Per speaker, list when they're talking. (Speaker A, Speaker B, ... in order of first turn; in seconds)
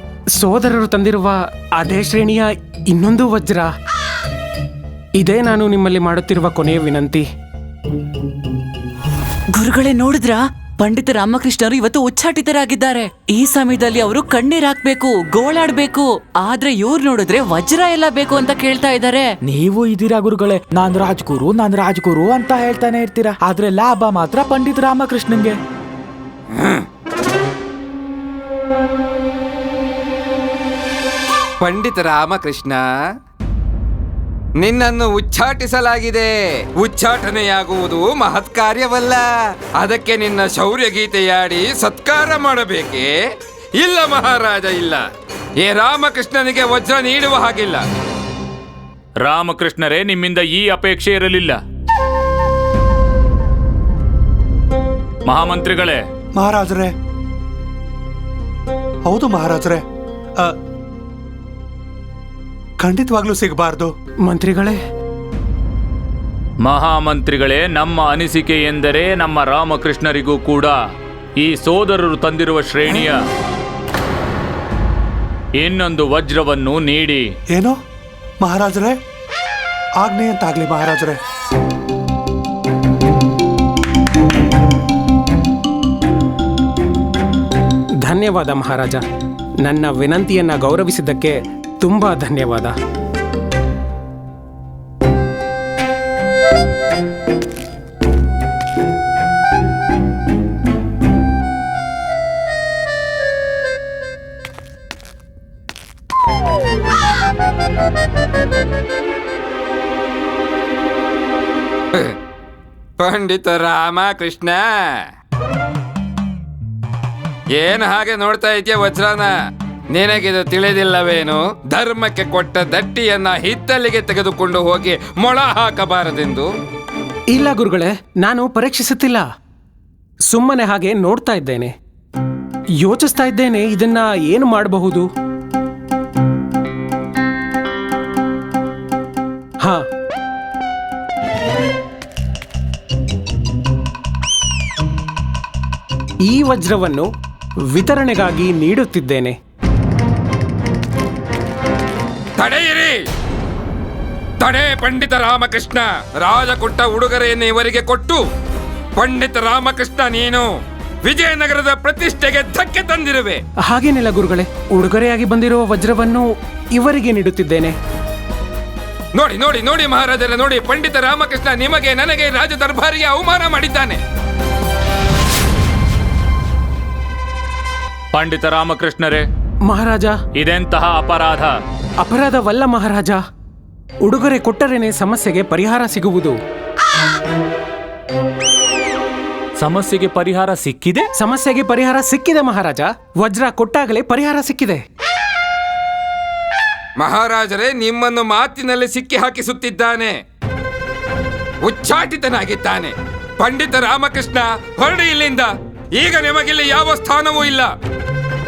Speaker A: 0.4-3.7, 5.2-7.2, 64.2-64.8, 88.0-89.0, 89.6-92.7, 127.3-129.2, 130.3-131.7, 132.8-135.1, 146.3-147.1, 147.7-149.4, 163.6-167.8, 179.7-180.1, 182.0-183.2, 184.0-186.4, 191.2-194.8
Speaker B: 9.6-19.4
Speaker C: 19.4-25.6
Speaker D: 26.5-26.8, 31.6-32.8, 34.6-36.2, 36.8-39.2, 39.8-43.1, 43.8-45.0, 45.6-47.8, 113.0-115.0, 117.5-119.3, 119.9-126.5, 152.4-153.0, 154.4-158.2, 159.0-160.5, 161.0-163.4, 169.2-174.0, 197.0-200.2, 201.6-207.7
Speaker E: 49.2-51.6, 55.2-56.0, 66.6-70.8, 71.4-73.2, 75.6-77.2, 178.1-179.3, 180.3-181.5, 189.6-191.1
Speaker F: 56.4-56.9, 59.1-59.8, 62.8-63.9, 78.4-79.0, 80.0-81.2